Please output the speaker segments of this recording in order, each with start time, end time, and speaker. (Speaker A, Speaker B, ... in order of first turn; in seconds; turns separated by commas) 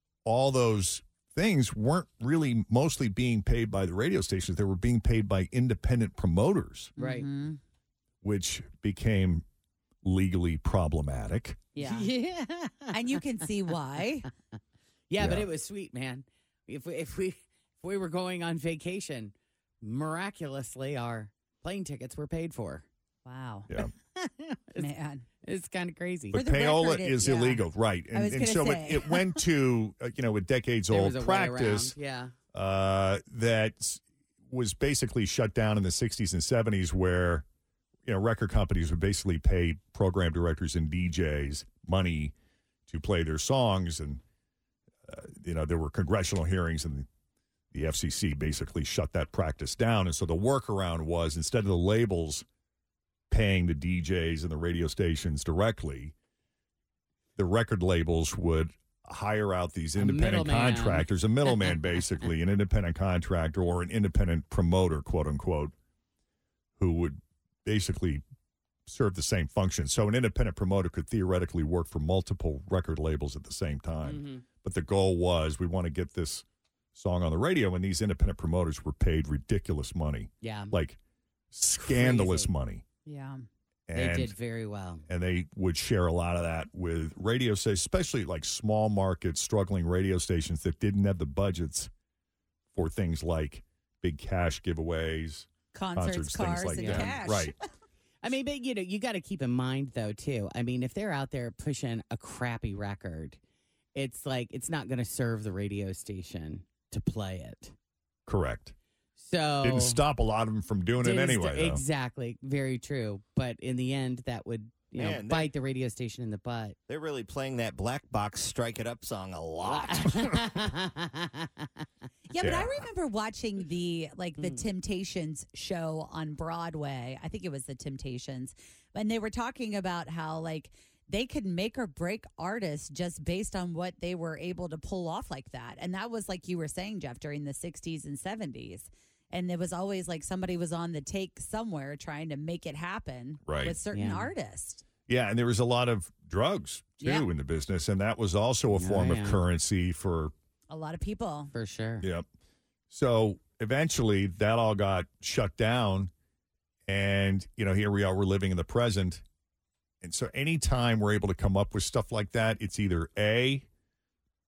Speaker A: 0.2-6.9, Speaker B: 7.0-7.6, Speaker C: 7.0-7.3, Speaker A: 8.2-9.4, Speaker A: 10.0-11.6, Speaker B: 11.7-12.1, Speaker C: 11.8-13.2, Speaker B: 12.9-14.3, Speaker C: 15.1-22.8, Speaker A: 15.2-15.4, Speaker B: 23.2-23.7, Speaker C: 24.1-24.9, Speaker B: 24.8-25.2, Speaker C: 25.4-26.4, Speaker A: 26.3-31.9, Speaker B: 26.3-29.2, Speaker C: 30.9-32.3, Speaker A: 32.5-37.4, Speaker A: 38.0-42.3, Speaker A: 42.9-44.2, Speaker A: 45.0-47.1, Speaker A: 47.7-52.4, Speaker A: 53.3-56.1, Speaker A: 57.4-65.7, Speaker C: 60.0-61.0, Speaker A: 66.8-68.2, Speaker A: 68.8-81.0, Speaker C: 74.0-74.4, Speaker C: 80.4-80.7, Speaker A: 81.5-82.8, Speaker C: 81.8-82.5, Speaker B: 83.0-83.4, Speaker A: 83.9-84.3, Speaker C: 83.9-85.0, Speaker A: 85.1-91.9, Speaker A: 92.7-97.5, Speaker B: 95.7-97.6, Speaker C: 96.7-97.2, Speaker C: 98.2-103.4, Speaker C: 103.9-107.7, Speaker A: 108.2-108.7, Speaker C: 109.2-110.0, Speaker A: 109.6-111.8, Speaker C: 111.0-116.8, Speaker D: 115.0-115.5, Speaker D: 116.9-120.3, Speaker C: 119.6-121.8, Speaker B: 122.3-144.8, Speaker A: 122.4-122.8, Speaker C: 124.4-124.6, Speaker A: 143.5-143.8, Speaker C: 143.9-144.3, Speaker A: 145.1-150.3, Speaker C: 148.8-149.4, Speaker B: 150.7-151.5, Speaker C: 151.5-152.1, Speaker A: 152.9-156.1, Speaker A: 156.9-159.2, Speaker A: 160.0-163.7